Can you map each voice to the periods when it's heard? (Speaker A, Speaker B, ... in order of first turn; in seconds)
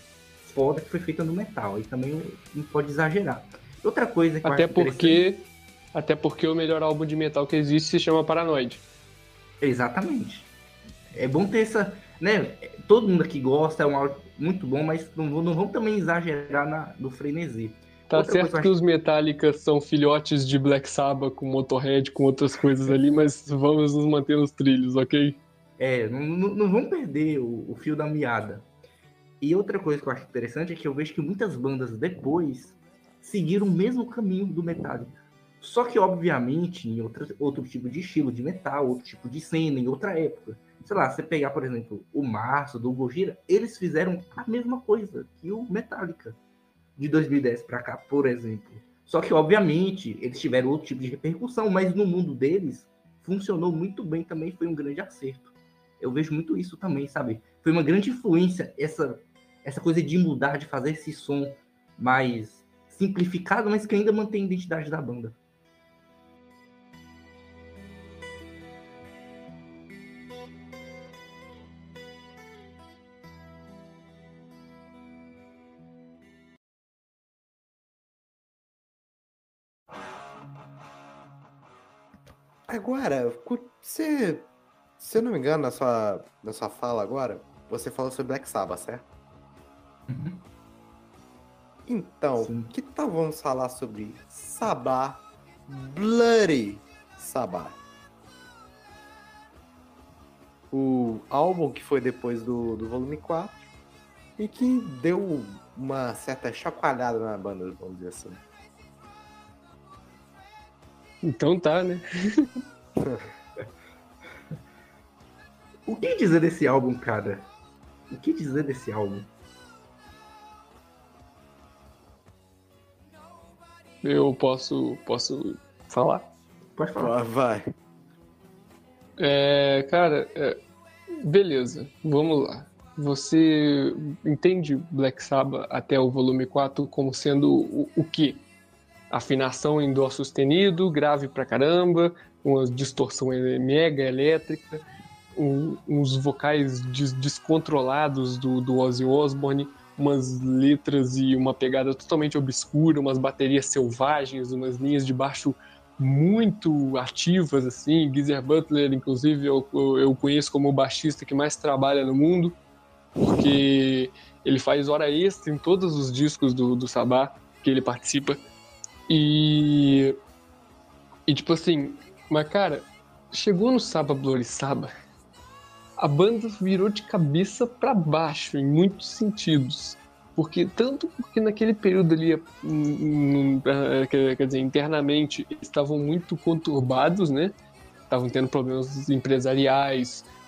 Speaker A: 0.4-5.2, 9.6-10.5, 11.1-18.7, 25.8-28.7, 29.4-46.4, 47.0-65.3, 90.1-90.4, 92.4-92.7, 115.8-117.5, 118.1-119.3, 126.8-127.1
Speaker B: 4.4-8.8, 18.1-25.4, 111.2-112.5, 124.0-126.3, 129.2-130.6, 131.2-138.4, 139.1-144.8, 145.3-162.6, 163.2-168.4, 169.1-170.2, 171.3-174.9, 176.0-187.5, 188.1-190.3
Speaker C: 82.7-84.5, 85.0-89.0, 91.8-97.8, 100.7-103.7, 104.4-108.4, 127.0-127.6